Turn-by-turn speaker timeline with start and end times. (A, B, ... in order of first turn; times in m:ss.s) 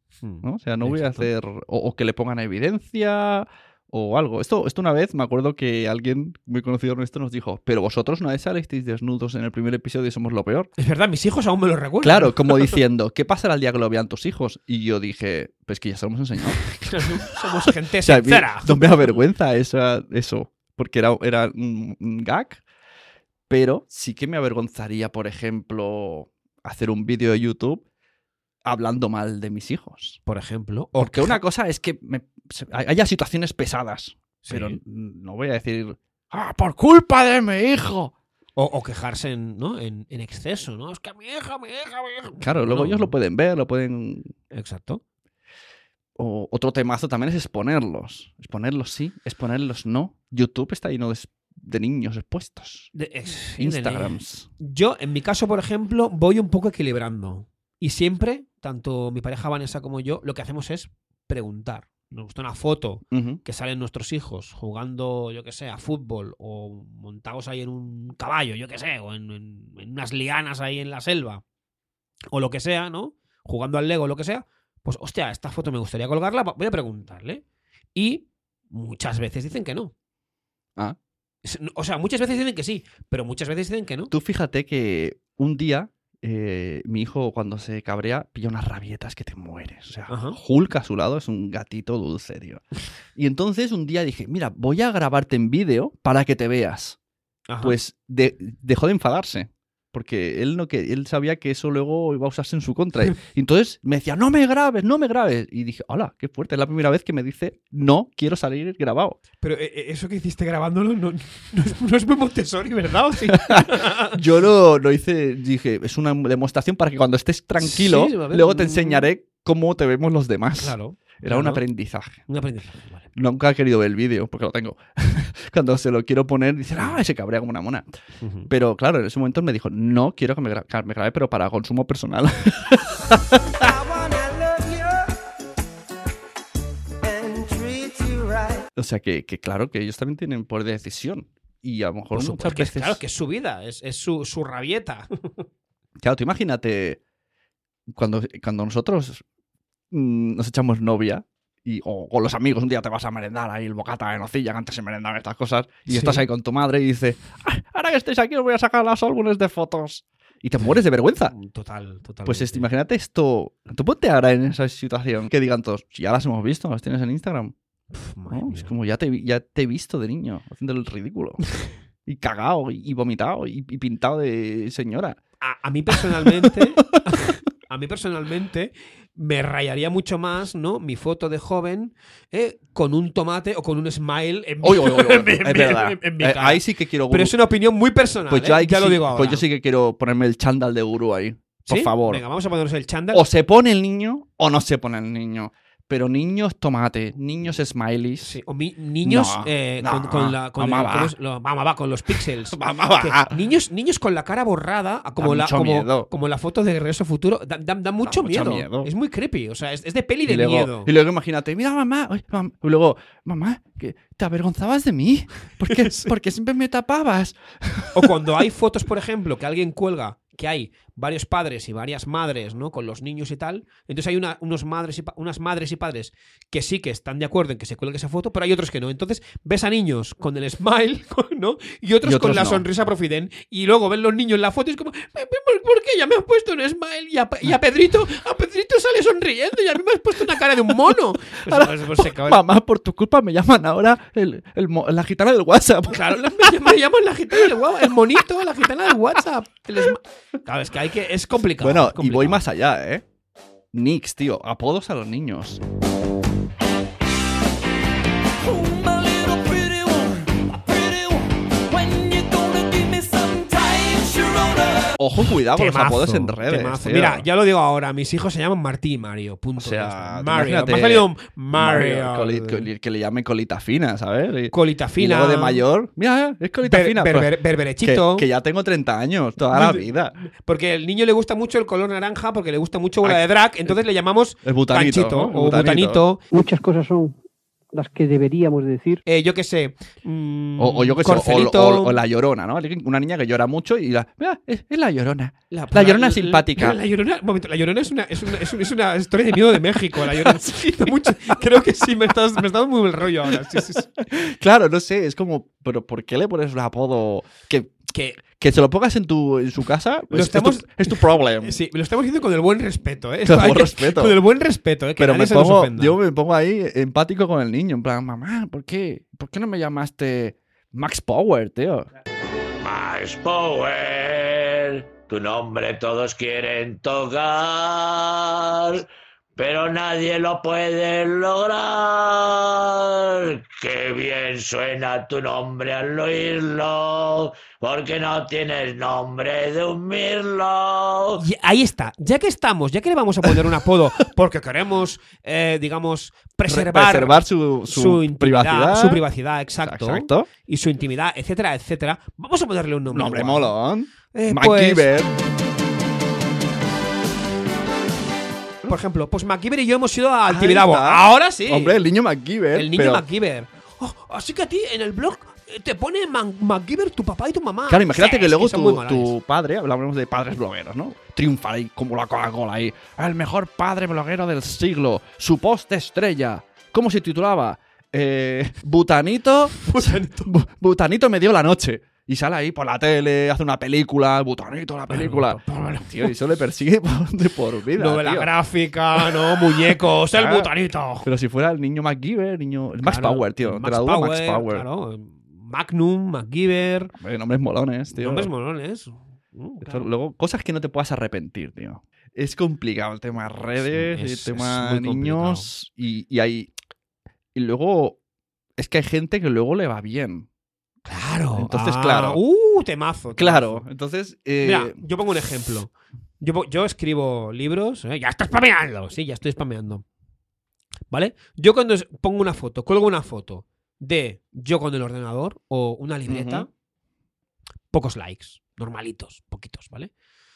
0:00.2-0:01.3 A
0:00.4-0:10.7 B
0:10.8-0:12.8 A
0:12.0-0:22.6 B
0:16.9-0:19.1 A
0:23.5-0:27.8 B
0:28.6-0:30.2 B
0:30.2-0:31.4 A
0:31.0-0:38.1 B
0:34.4-0:34.8 A
0:38.6-0:43.1 A
0:42.4-0:44.3 B
0:44.5-0:45.0 A
0:46.2-0:52.9 B
0:52.9-1:11.4 A
0:53.6-0:54.5 B
1:03.1-1:03.4 B
1:12.3-1:17.4 A
1:17.9-1:19.9 A
1:21.4-1:24.1 A
1:24.1-1:32.6 B
1:30.1-1:30.4 A
1:33.1-1:37.0 B
1:37.5-1:37.8 A
1:37.6-1:49.2 B
1:49.4-1:54.2 A
1:53.3-2:02.2 B
1:57.6-1:59.1 A
2:00.6-2:01.6 A
2:02.3-2:03.1 A
2:03.1-2:07.9 B
2:08.2-2:08.5 A
2:08.5-2:13.7 B
2:13.6-2:15.1 C
2:17.0-2:18.7 C
2:18.8-2:23.0 B
2:22.1-2:25.4 A
2:26.0-2:27.0 B
2:27.9-2:29.2 B
2:29.9-2:41.3 B
2:35.9-2:36.2 A
2:41.3-2:42.7 A
2:42.2-2:47.5 B
2:47.9-2:48.7 A
2:48.3-2:51.4 B
2:52.0-2:55.2 B
2:55.4-3:09.4 A
2:55.9-2:56.6 B
3:04.6-3:07.3 B
3:08.3-3:12.2 B
3:11.7-3:13.2 A
3:13.1-3:18.4 B
3:18.2-3:30.9 A
3:19.0-3:21.1 B
3:22.1-3:23.4 B
3:25.2-3:26.1 B
3:28.0-3:28.9 B
3:30.2-3:38.1 B
3:35.6-3:36.1 A
3:37.9-4:02.4 A
3:52.0-3:52.6 B
4:01.4-4:06.7 B
4:05.9-4:12.4 A
4:11.6-4:13.0 B
4:13.7-4:15.6 B
4:18.4-4:24.9 C
4:25.0-4:27.2 B
4:25.5-4:32.7 A
4:29.6-4:40.2 B
4:34.5-4:35.6 A
4:36.6-4:38.2 A
4:39.5-4:46.2 A
4:43.0-4:43.8 B
4:44.4-4:46.1 B
4:46.3-4:47.2 D
4:47.7-4:49.0 D
4:49.0-4:52.0 A
4:50.6-4:56.8 B
4:55.5-5:03.9 A
4:59.9-5:01.4 B
5:03.5-5:11.6 B
5:07.9-5:08.2 A
5:10.1-5:16.0 A
5:13.2-5:14.2 B
5:15.0-5:21.9 B
5:22.6-5:41.2 E
5:41.2-5:53.5 A
5:46.5-5:49.0 B
5:49.6-5:50.3 B
5:52.9-5:55.2 B
5:54.1-5:54.9 A
5:58.7-6:01.8 A
6:00.3-6:03.0 B
6:02.5-6:09.2 A
6:07.7-6:28.3 B
6:19.6-6:20.3 A
6:24.9-6:26.1 A
6:27.8-6:31.1 A
6:29.0-6:34.6 B
6:32.8-6:36.9 A
6:36.9-6:38.3 B
6:37.9-6:39.9 A
6:39.6-6:46.5 B
6:43.6-6:45.5 A
6:47.3-6:48.0 B
6:48.6-6:50.3 B
6:50.8-6:53.6 A
6:51.4-6:52.2 B
6:53.1-6:54.8 B
6:54.4-6:59.8 A
7:00.9-7:06.5 A
7:06.1-7:06.5 B
7:07.7-7:09.9 A